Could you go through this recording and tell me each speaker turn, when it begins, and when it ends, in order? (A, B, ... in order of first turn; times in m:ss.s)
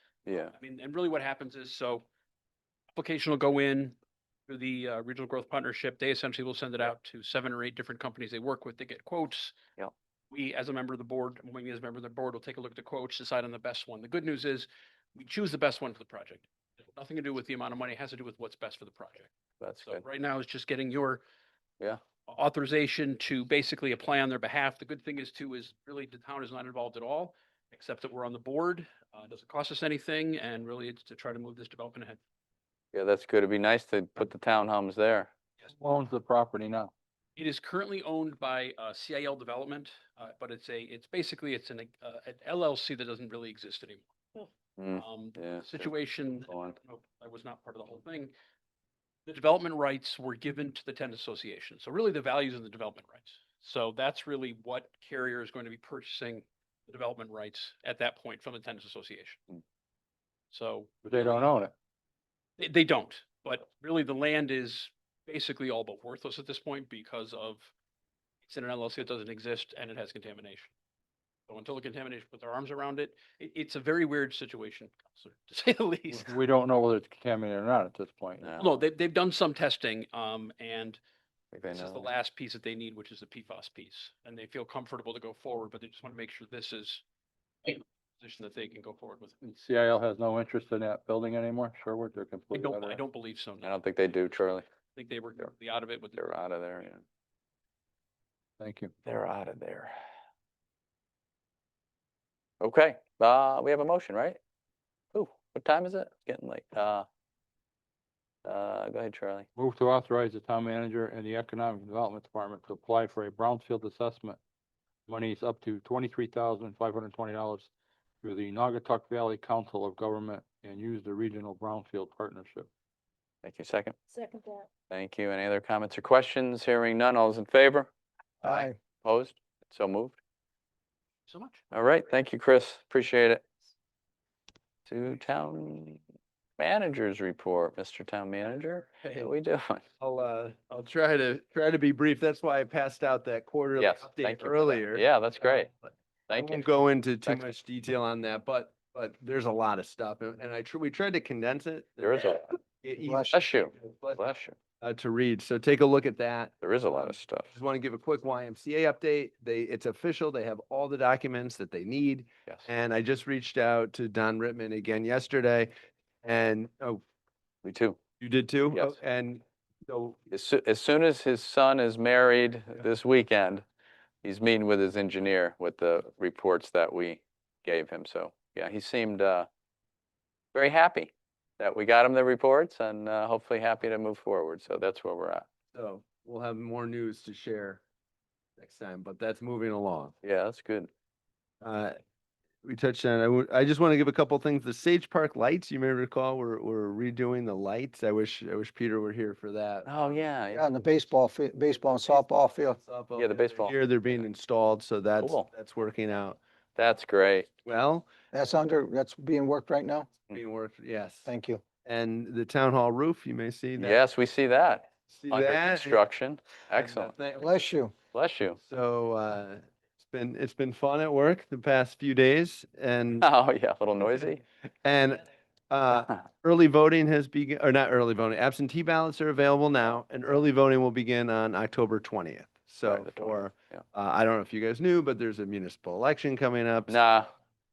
0:00.2-0:00.5 A
0:00.5-0:02.0 B
0:02.9-0:04.0 B
0:04.5-0:09.6 B
0:10.3-0:19.3 B
0:19.6-0:20.0 A
0:19.8-0:21.2 B
0:22.3-0:32.2 B
0:32.9-0:35.3 A
0:35.8-0:36.9 C
0:37.4-0:44.1 B
0:44.8-0:45.9 A
0:44.9-0:48.3 B
0:46.4-0:46.8 A
0:49.3-0:59.4 B
1:00.5-1:01.5 B
1:01.0-1:01.7 C
1:02.6-1:07.7 B
1:08.4-1:10.7 B
1:11.5-1:16.4 B
1:16.1-1:18.6 C
1:18.6-1:21.0 B
1:21.5-1:22.1 A
1:21.7-1:27.0 B
1:27.6-1:29.4 B
1:29.4-1:33.0 C
1:32.5-1:34.4 B
1:33.6-1:34.6 A
1:34.9-1:36.3 B
1:36.1-1:37.0 A
1:38.6-1:38.9 C
1:39.0-1:39.9 A
1:42.6-1:44.4 A
1:45.1-1:47.0 A
1:48.4-1:49.5 A
1:49.5-1:54.4 C
1:55.1-1:57.7 C
1:58.2-2:02.7 C
2:03.4-2:04.0 A
2:04.9-2:07.9 A
2:08.4-2:08.8 D
2:08.4-2:10.2 A
2:11.3-2:11.6 B
2:11.7-2:13.4 A
2:14.9-2:16.0 A
2:16.6-2:19.8 A
2:19.0-2:19.3 E
2:20.0-2:34.2 E
2:23.8-2:25.7 A
2:26.3-2:26.6 A
2:32.0-2:32.5 A
2:33.0-2:33.3 D
2:33.3-2:34.6 A
2:34.8-2:45.7 E
2:36.6-2:37.5 A
2:46.2-2:47.0 E
2:47.6-2:48.0 A
2:48.2-2:50.2 E
2:48.7-2:49.0 A
2:50.3-2:53.6 A
2:54.2-2:59.5 A
3:00.5-3:05.4 A
3:05.7-3:07.8 E
3:08.6-3:10.1 E
3:10.2-3:10.9 A
3:11.6-3:11.9 E
3:12.6-3:19.9 E
3:19.8-3:20.6 A
3:20.5-3:22.8 D
3:21.8-3:26.4 E
3:23.2-3:23.8 A
3:25.2-3:25.5 A
3:26.8-3:27.5 A
3:27.6-3:28.1 E
3:28.3-3:30.1 D
3:30.3-3:31.3 E
3:31.2-3:31.6 D
3:31.8-3:34.0 E
3:33.8-3:37.1 A
3:35.1-3:36.0 E
3:36.7-3:37.6 E
3:37.4-3:37.9 D
3:38.1-3:38.6 A
3:38.6-3:43.3 E
3:43.2-3:44.4 A
3:44.8-3:57.0 E
3:52.8-3:53.8 A
3:56.9-3:57.3 A